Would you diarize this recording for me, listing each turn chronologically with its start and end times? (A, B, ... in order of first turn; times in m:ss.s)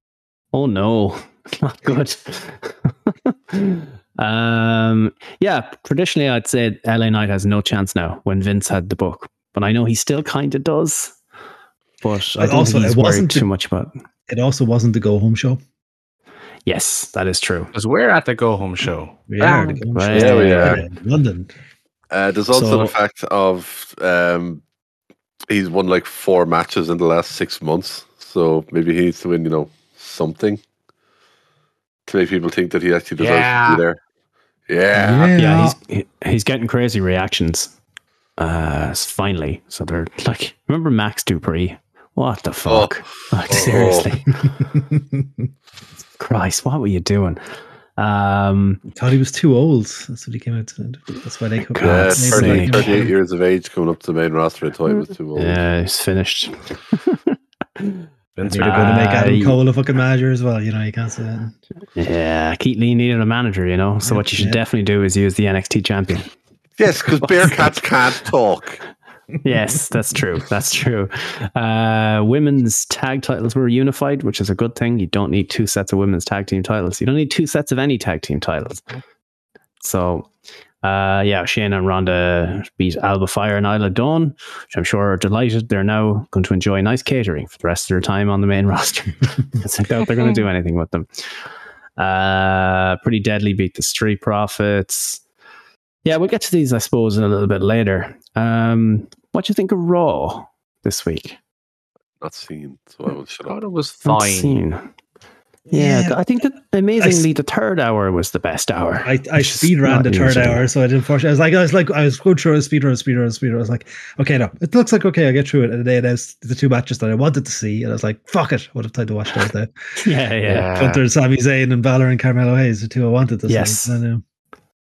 0:00.5-0:11.2 A
0:12.0-0:13.9 A
0:12.4-0:13.5 B
0:14.3-0:15.6 B
0:16.6-0:17.7 A
0:17.7-0:19.8 C
0:19.3-0:21.5 B
0:19.9-0:20.8 A
0:20.1-0:20.8 D
0:22.1-0:24.6 D
0:22.5-0:22.9 A
0:25.5-0:30.6 D
0:32.1-0:34.0 D
0:33.2-0:33.8 C
0:34.7-0:35.3 D
0:34.9-0:35.8 B
0:35.4-0:37.7 A
0:38.4-0:44.5 A
0:42.7-0:44.1 D
0:44.8-0:45.2 B
0:46.2-0:47.4 A
0:48.0-0:48.8 A
0:48.9-0:53.1 B
0:51.7-0:52.9 A
0:51.8-0:55.6 D
0:55.3-0:58.0 A
0:58.4-0:58.9 C
0:58.4-1:01.6 B
0:58.6-0:59.6 A
1:02.0-1:06.3 A
1:04.0-1:04.6 B
1:06.8-1:08.8 D
1:07.2-1:07.8 A
1:09.4-1:18.8 A
1:19.8-1:20.3 A
1:20.8-1:31.2 A
1:32.0-1:35.2 A
1:36.0-1:41.4 A
1:42.2-1:43.5 D
1:43.5-1:44.6 C
1:44.0-1:44.8 A
1:45.7-1:46.2 B
1:45.7-1:50.7 A
1:47.0-1:47.3 B
1:49.0-1:59.7 B
2:00.0-2:00.7 A
2:00.4-2:01.0 C
2:00.7-2:04.2 B
2:03.5-2:04.0 A